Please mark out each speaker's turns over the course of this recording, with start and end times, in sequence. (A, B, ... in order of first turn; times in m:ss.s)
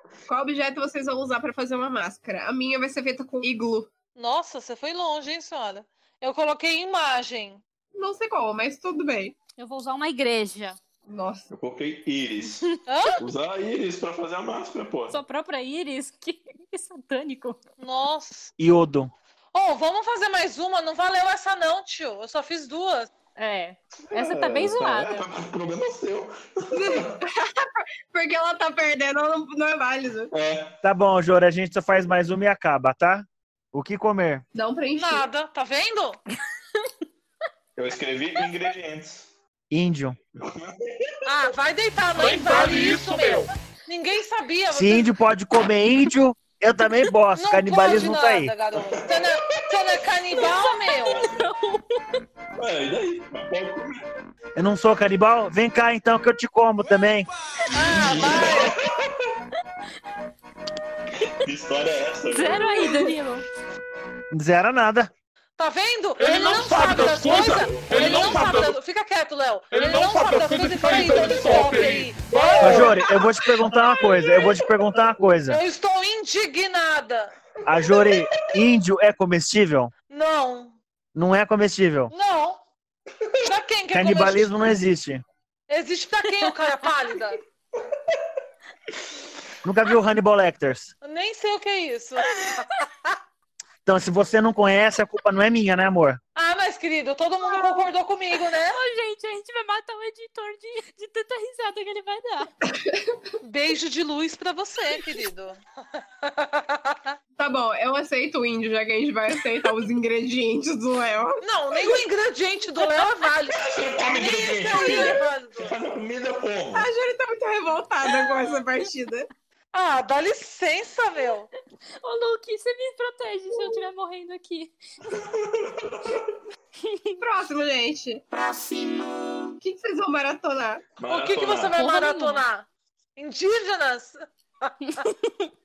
0:00.3-0:03.9 A
0:04.2-0:07.6 B
0:07.9-0:09.4 A
0:09.6-0:10.8 C
0:11.1-0:11.5 A
0:11.5-0:12.7 D
0:12.9-0:13.2 B
0:13.2-0:15.2 D
0:15.1-0:17.6 C
0:17.8-0:18.5 B
0:18.6-0:19.1 E
0:19.5-0:23.1 B
0:23.4-0:25.3 C
0:24.1-0:27.1 D
0:26.7-0:30.3 A
0:30.3-0:30.8 D
0:30.8-0:34.4 E
0:34.6-0:35.3 A
0:34.9-0:36.2 B
0:37.8-0:39.3 D
0:39.7-0:40.2 E
0:40.4-0:41.2 D
0:41.2-0:45.1 B
0:44.7-0:48.5 E
0:47.4-0:51.3 B
0:48.8-0:49.7 D
0:50.4-0:52.2 C
0:52.6-0:54.1 D
0:54.6-0:57.3 E
0:57.7-0:58.8 B
0:57.8-0:59.3 D
1:01.1-1:03.1 D
1:02.3-1:03.4 C
1:04.3-1:05.1 E
1:05.6-1:13.1 B
1:07.1-1:08.7 D
1:12.6-1:15.6 E
1:15.5-1:17.3 B
1:17.6-1:19.9 E
1:17.7-1:18.3 D
1:20.1-1:20.8 B
1:21.1-1:22.1 E
1:22.1-1:22.6 B
1:23.4-1:24.5 B
1:23.9-1:25.2 E
1:25.7-1:27.4 B
1:29.6-1:30.9 E
1:31.0-1:32.9 B
1:33.8-1:36.2 E
1:36.4-1:38.8 B
1:38.7-1:42.5 C
1:42.7-1:43.3 A
1:43.4-1:45.6 B
1:46.2-1:47.2 B
1:47.4-1:52.0 A
1:51.4-1:55.8 B
1:53.6-1:56.9 D
1:54.8-1:55.1 A
1:56.7-1:59.3 A
1:59.7-2:01.5 B
2:02.0-2:04.8 C
2:05.1-2:06.3 D
2:06.8-2:07.2 C
2:07.2-2:08.2 A
2:09.6-2:10.8 A
2:11.0-2:11.8 D
2:11.1-2:12.6 B
2:11.8-2:12.4 C
2:13.2-2:14.7 B
2:15.0-2:15.3 C